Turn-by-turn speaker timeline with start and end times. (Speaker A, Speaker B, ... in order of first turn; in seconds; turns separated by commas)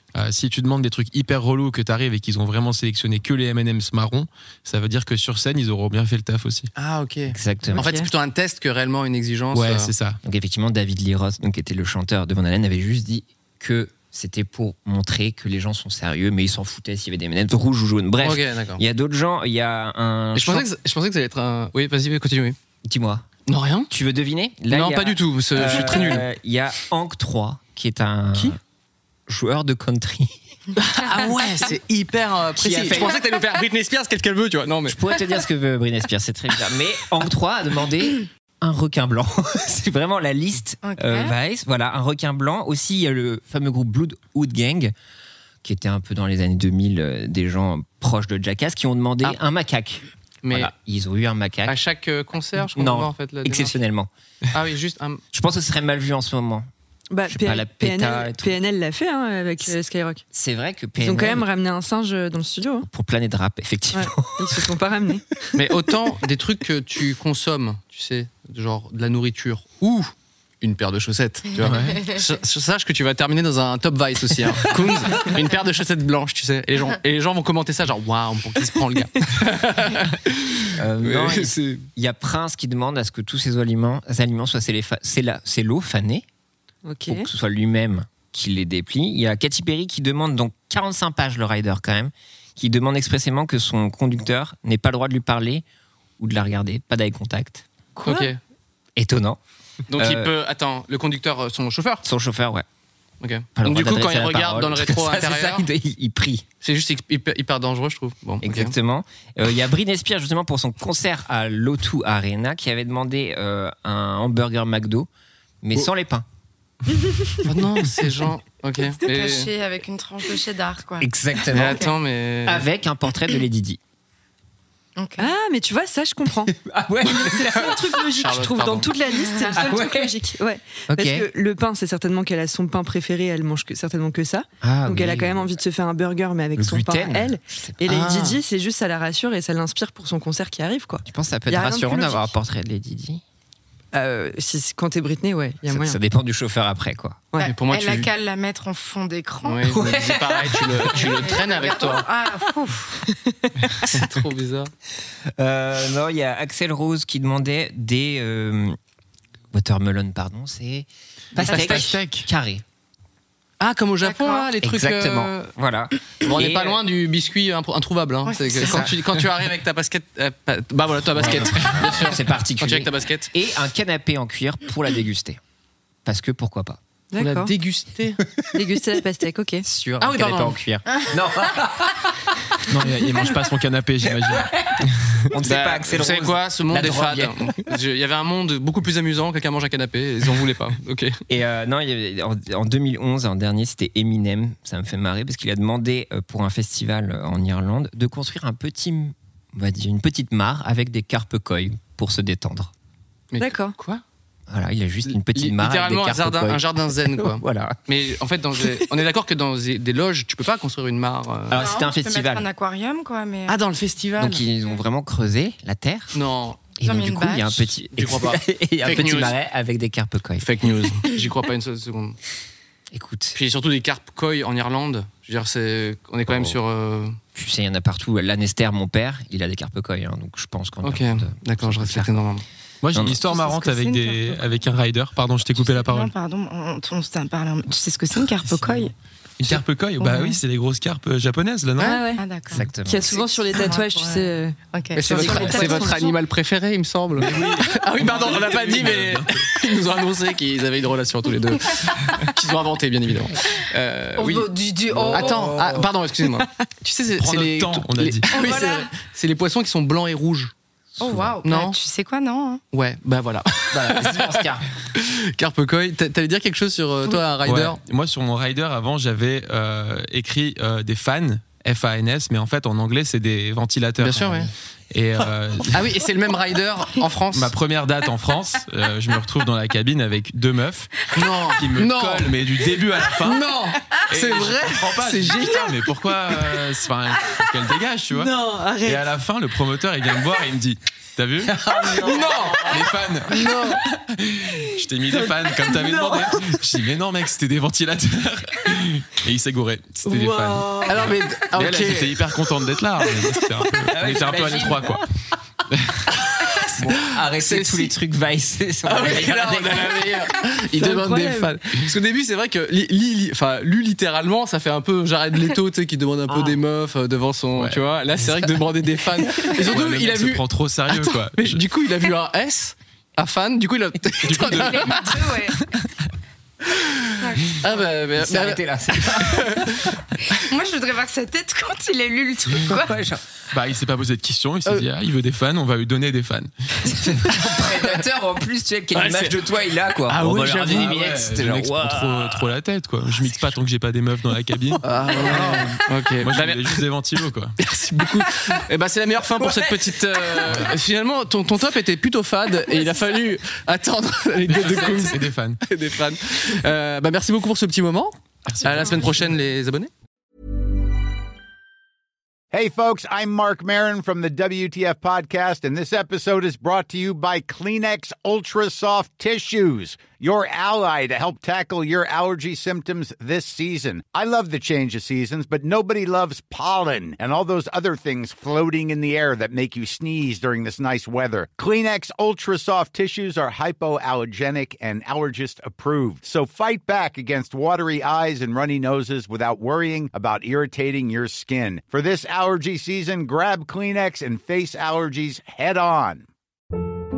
Speaker A: 0.1-6.7, Speaker B: 6.8-9.9, Speaker C: 7.3-8.0, Speaker D: 7.8-8.1, Speaker A: 9.5-10.2, Speaker C: 10.2-20.7, Speaker B: 18.2-18.8, Speaker B: 20.3-22.6, Speaker C: 22.8-23.3, Speaker B: 23.5-23.9, Speaker C: 23.9-28.6, Speaker B: 24.7-26.3, Speaker C: 29.3-30.4, Speaker B: 30.8-35.2, Speaker C: 32.6-33.2, Speaker C: 34.9-44.9, Speaker E: 40.8-41.3, Speaker C: 45.6-51.8, Speaker B: 50.4-50.7, Speaker B: 51.7-53.8, Speaker C: 52.6-54.1, Speaker B: 54.5-55.2, Speaker C: 55.3-56.7, Speaker D: 57.1-60.2, Speaker C: 57.3-58.6, Speaker C: 60.3-61.5, Speaker D: 61.0-62.9, Speaker C: 62.8-64.7, Speaker D: 63.9-65.6, Speaker B: 65.5-81.7, Speaker A: 71.6-72.1, Speaker C: 80.8-86.2, Speaker D: 86.8-87.3, Speaker C: 87.1-95.6, Speaker C: 96.2-97.7, Speaker D: 98.0-98.3, Speaker B: 98.0-98.4, Speaker C: 99.0-99.4, Speaker B: 99.9-102.0, Speaker C: 99.9-100.3, Speaker C: 102.0-102.6, Speaker B: 103.2-105.7, Speaker C: 103.6-106.4, Speaker B: 106.6-108.7, Speaker C: 108.4-115.1, Speaker C: 115.6-116.2, Speaker B: 117.4-119.5, Speaker E: 119.0-121.1, Speaker C: 121.0-121.9, Speaker B: 121.5-122.7, Speaker C: 122.4-123.8, Speaker E: 125.0-125.3, Speaker D: 125.2-142.3, Speaker C: 126.4-128.2, Speaker B: 128.2-129.1, Speaker E: 129.2-129.6, Speaker C: 129.5-130.2, Speaker C: 130.9-131.3, Speaker C: 134.6-135.6, Speaker C: 136.6-137.9, Speaker B: 137.9-138.4, Speaker C: 141.1-143.2, Speaker D: 143.9-146.0, Speaker C: 145.7-147.2, Speaker D: 147.3-147.6, Speaker B: 147.4-148.1, Speaker E: 147.7-149.8, Speaker B: 149.4-152.1, Speaker C: 149.7-151.3, Speaker E: 150.9-152.9, Speaker D: 152.9-153.7, Speaker B: 153.7-154.7, Speaker C: 155.4-158.8, Speaker C: 159.5-162.6, Speaker A: 161.5-162.2, Speaker B: 161.6-161.9, Speaker B: 163.6-165.5, Speaker E: 164.1-164.5, Speaker C: 164.6-166.8, Speaker B: 166.2-173.3, Speaker E: 168.2-168.9, Speaker C: 168.6-168.9, Speaker C: 171.1-175.4, Speaker C: 176.1-176.8, Speaker D: 177.1-177.5, Speaker B: 177.2-178.2, Speaker D: 178.5-179.7, Speaker B: 179.7-180.6, Speaker C: 180.0-182.3, Speaker A: 182.7-184.5, Speaker C: 184.0-187.6, Speaker B: 185.4-191.2, Speaker C: 191.3-202.7, Speaker B: 203.3-204.0, Speaker D: 203.4-203.8, Speaker C: 204.5-207.8, Speaker B: 205.1-211.6, Speaker C: 211.5-212.5, Speaker E: 211.5-213.6, Speaker B: 213.5-214.4, Speaker C: 214.2-216.2, Speaker B: 216.1-216.7, Speaker C: 216.8-220.5, Speaker E: 216.8-217.8, Speaker B: 217.9-219.4, Speaker B: 220.4-222.2, Speaker C: 222.9-223.4, Speaker B: 223.3-227.2, Speaker C: 227.3-232.2, Speaker B: 230.8-232.4, Speaker A: 232.8-236.1, Speaker C: 232.9-233.2, Speaker E: 233.2-234.5, Speaker E: 235.6-238.9, Speaker A: 238.5-238.8, Speaker A: 239.4-242.0, Speaker D: 240.0-240.4, Speaker D: 241.8-242.3, Speaker E: 242.1-246.2, Speaker C: 242.5-243.1, Speaker D: 242.8-246.1, Speaker B: 244.9-254.5, Speaker C: 245.2-245.6, Speaker A: 247.2-249.5, Speaker E: 254.2-255.5, Speaker C: 254.9-255.8, Speaker B: 255.1-260.5, Speaker A: 257.1-258.3, Speaker E: 258.3-258.9, Speaker E: 261.0-262.6, Speaker C: 261.0-261.3, Speaker B: 261.4-261.8, Speaker B: 262.7-267.8, Speaker C: 263.7-264.6, Speaker A: 267.4-274.2, Speaker B: 274.0-274.5, Speaker C: 274.2-274.5, Speaker A: 274.9-275.9, Speaker B: 275.2-277.5, Speaker A: 277.3-283.5, Speaker B: 281.1-282.4, Speaker B: 283.2-285.6, Speaker A: 284.1-288.3, Speaker D: 288.3-289.0, Speaker A: 288.8-291.6, Speaker C: 291.5-292.6, Speaker B: 291.8-292.8, Speaker D: 292.0-292.6, Speaker A: 292.6-305.0, Speaker B: 293.3-293.8, Speaker D: 295.1-296.2, Speaker D: 300.1-301.0, Speaker B: 300.9-302.2, Speaker C: 303.9-305.4, Speaker C: 306.2-310.3, Speaker B: 306.4-307.9, Speaker B: 308.8-325.5, Speaker D: 310.8-311.6, Speaker A: 317.6-317.8, Speaker A: 319.7-321.6, Speaker A: 324.2-325.1, Speaker E: 324.6-325.4, Speaker D: 324.9-325.4, Speaker B: 326.7-330.4, Speaker E: 327.2-327.9, Speaker C: 328.1-329.7, Speaker E: 330.5-332.9, Speaker C: 332.6-333.2, Speaker A: 333.5-336.5, Speaker C: 336.8-342.5, Speaker B: 338.9-339.4, Speaker B: 340.1-341.0, Speaker A: 340.5-347.5, Speaker B: 344.8-346.8, Speaker C: 345.1-345.6, Speaker B: 347.6-359.9, Speaker A: 350.4-350.7, Speaker A: 354.5-355.6, Speaker A: 358.5-359.1, Speaker F: 362.5-396.2